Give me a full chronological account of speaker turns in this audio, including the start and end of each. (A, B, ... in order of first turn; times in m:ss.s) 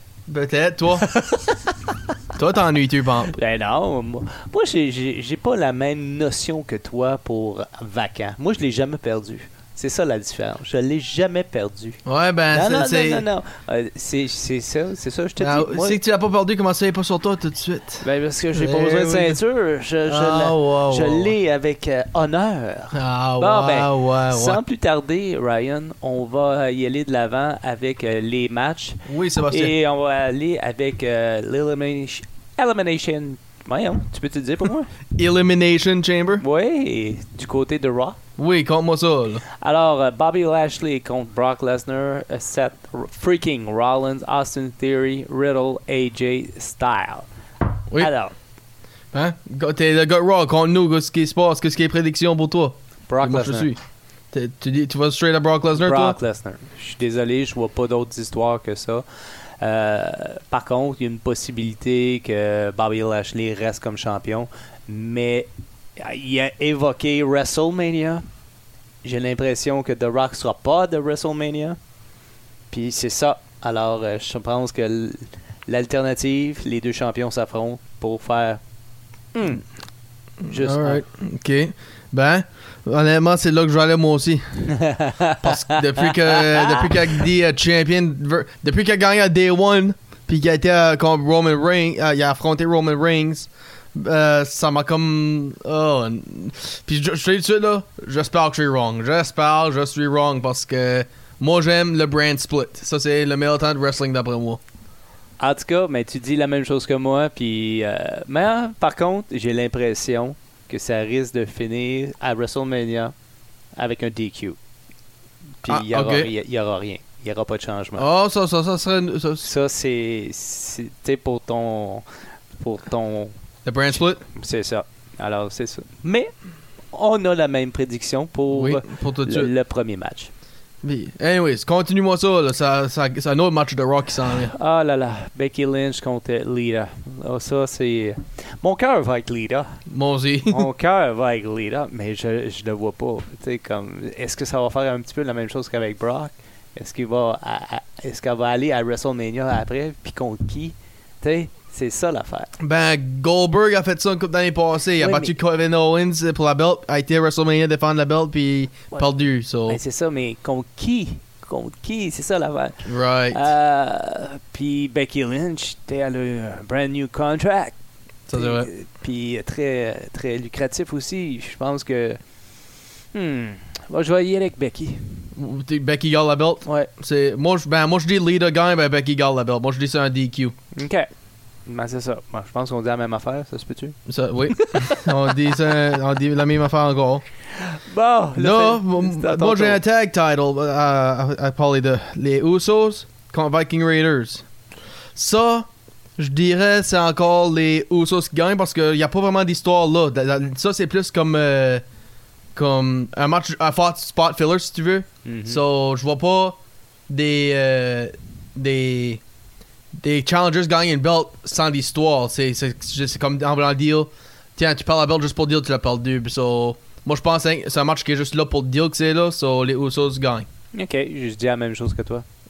0:00.3-0:01.1 A
0:01.0-0:01.9 B
0:02.4-0:03.4 A
0:03.3-0:12.0 B
0:12.1-0:13.3 A
0:12.5-0:16.0 B
0:15.4-0:19.4 A
0:18.0-0:34.9 B
0:20.0-0:21.4 A
0:22.9-0:24.6 A
0:29.1-0:29.8 A
0:35.2-0:36.4 A
0:36.4-0:38.2 B
0:38.4-0:39.4 A
0:39.6-0:47.3 B
0:47.9-0:48.4 B
0:49.1-0:53.8 A
0:53.1-0:53.7 B
0:54.3-0:56.2 A
0:55.8-1:08.2 B
1:09.0-1:11.8 B
1:12.7-1:18.6 B
1:19.4-1:19.7 B
1:20.4-1:21.0 B
1:20.4-1:44.6 A
1:24.7-1:26.9 B
1:45.4-1:53.1 B
1:53.8-1:54.6 B
1:55.6-1:58.1 B
1:55.7-1:56.3 A
1:58.0-1:59.5 A
1:59.4-2:02.0 B
2:02.6-2:03.3 B
2:03.6-2:04.2 A
2:04.2-2:06.3 B
2:06.9-2:10.3 B
2:08.5-2:09.5 A
2:10.8-2:14.5 A
2:14.4-2:19.8 B
2:19.9-2:20.7 A
2:20.5-2:32.5 B
2:32.6-2:39.8 A
2:35.0-2:35.3 B
2:39.7-2:47.8 B
2:42.8-2:43.5 A
2:48.3-2:48.7 A
2:48.3-2:52.2 B
2:53.1-2:55.3 B
2:55.4-3:00.5 A
2:56.6-2:56.9 B
3:00.8-3:01.1 B
3:01.7-3:04.0 B
3:04.1-3:07.2 A
3:04.6-3:05.8 B
3:07.6-3:09.8 B
3:08.4-3:14.4 A
3:15.2-3:15.7 A
3:16.2-3:21.8 A
3:22.6-3:26.6 A
3:25.2-3:25.6 B
3:27.1-3:29.2 A
3:30.0-3:40.5 A
3:40.7-3:42.2 B